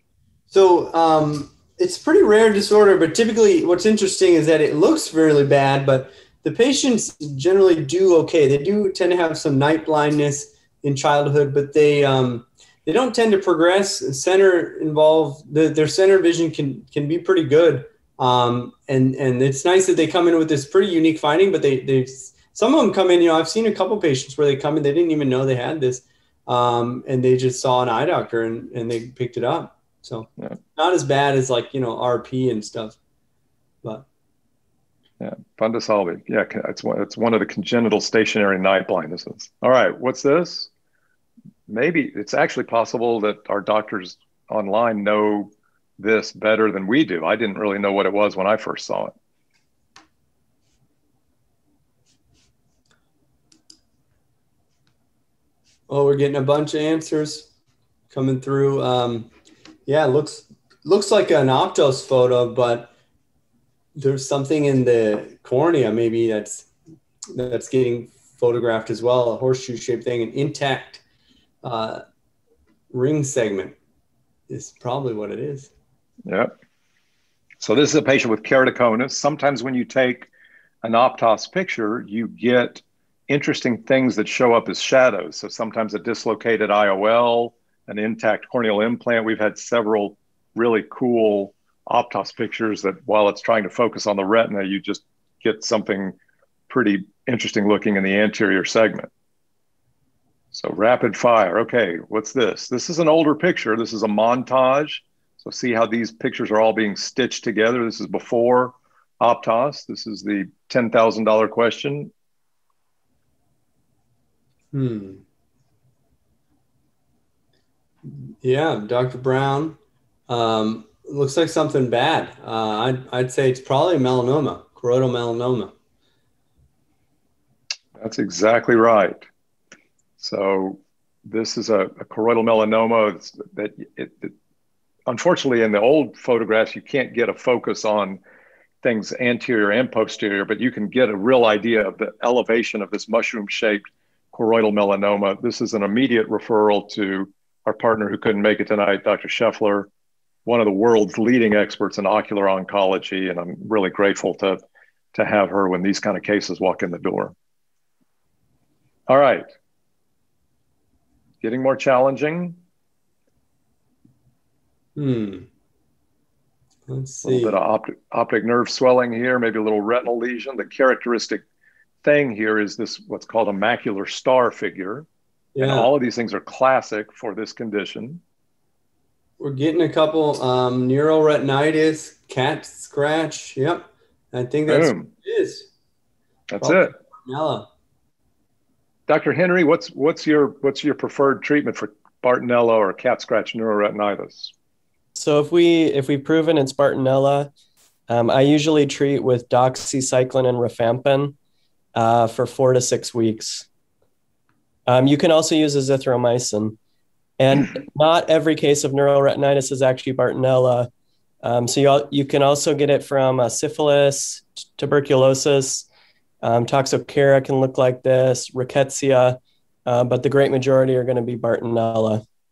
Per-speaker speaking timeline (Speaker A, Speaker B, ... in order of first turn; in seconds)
Speaker A: 0.5-33.0, 55.9-57.5, 58.1-59.3, 59.9-62.9, 64.0-66.7, 67.3-71.0, 71.6-72.0, 72.9-73.8, 74.5-75.7, 114.7-115.2, 118.1-125.7, 165.0-165.5, 166.9-167.6, 175.6-175.9, 179.4-185.7, 186.6-187.7
Speaker B: 35.2-40.7, 41.7-49.1, 76.3-76.5, 77.6-80.3, 80.8-96.2, 96.7-99.1, 100.5-112.1, 128.0-129.3, 130.2-134.3, 135.1-138.2, 138.8-149.9, 150.4-154.6, 155.1-157.3, 159.1-159.5, 161.4-162.6, 167.2-171.4, 172.0-175.1, 175.6-178.2, 184.7-185.1, 186.5-186.9, 189.1-194.5
Speaker C: 195.2-197.5, 198.1-201.3, 202.0-203.7, 204.9-206.8, 207.4-210.9, 211.4-215.9, 216.4-222.2